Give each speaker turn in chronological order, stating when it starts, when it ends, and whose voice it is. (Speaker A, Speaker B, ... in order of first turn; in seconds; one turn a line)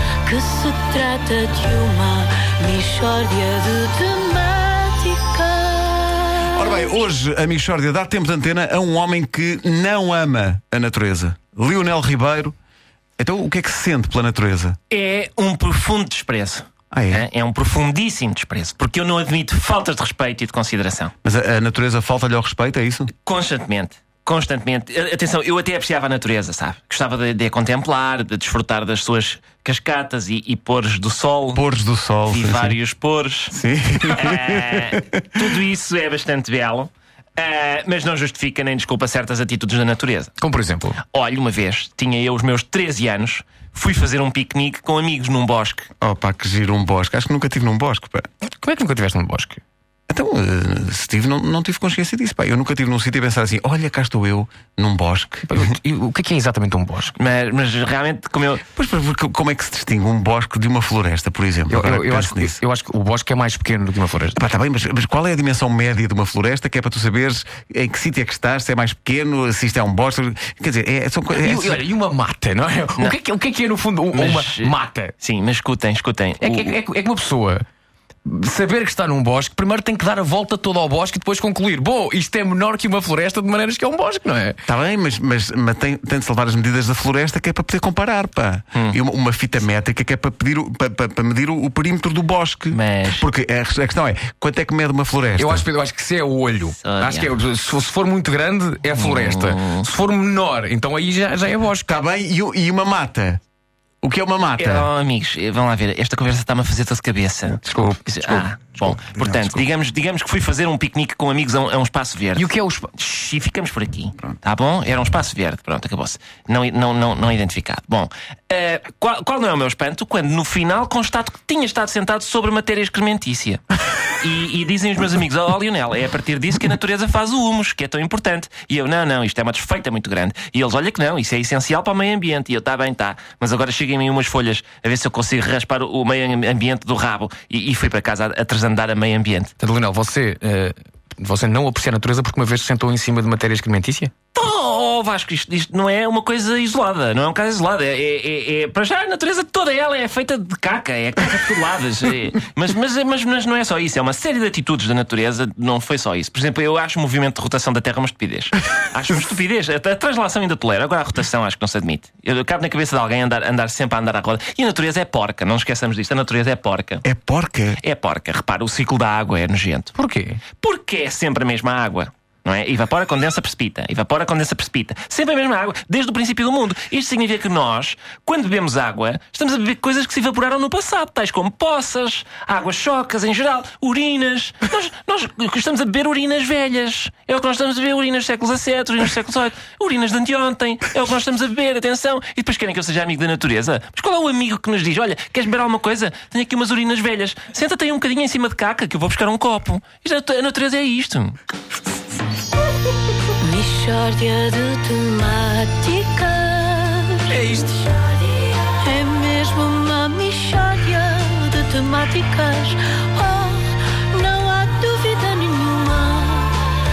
Speaker A: 0.2-6.6
Speaker B: 6.5-12.6
Speaker B: 13.2-14.8
Speaker C: 14.9-21.1
Speaker B: 16.9-17.3
Speaker B: 21.2-23.1
Speaker C: 23.2-31.6
Speaker B: 31.6-32.7
Speaker C: 32.3-33.6
Speaker B: 33.5-35.4
Speaker C: 34.1-40.3
Speaker D: 40.4-41.0
Speaker C: 41.1-45.9
Speaker B: 46.0-48.3
Speaker D: 48.5-49.6
Speaker B: 50.1-55.6
Speaker D: 55.5-57.1
Speaker C: 57.1-58.6
Speaker B: 58.8-62.5
Speaker D: 61.7-64.4
Speaker B: 64.3-71.8
Speaker D: 71.3-75.1
Speaker C: 74.1-76.8
Speaker D: 76.4-77.7
Speaker D: 78.2-84.6
Speaker B: 84.7-95.7
Speaker C: 92.7-93.3
Speaker D: 95.4-101.9
Speaker C: 96.8-97.3
Speaker C: 98.9-99.9
Speaker B: 101.8-103.4
Speaker B: 104.0-104.9
Speaker C: 104.6-112.5
Speaker D: 107.7-108.3
Speaker B: 109.0-109.6
Speaker D: 112.4-113.2
Speaker C: 113.1-123.6
Speaker C: 124.1-139.5
Speaker D: 139.6-144.1
Speaker C: 144.3-167.0
Speaker B: 167.0-167.8
Speaker C: 167.8-169.9
Speaker D: 170.0-170.4
Speaker C: 170.6-201.4
Speaker A: 203.4-207.5
Speaker A: 208.6-216.6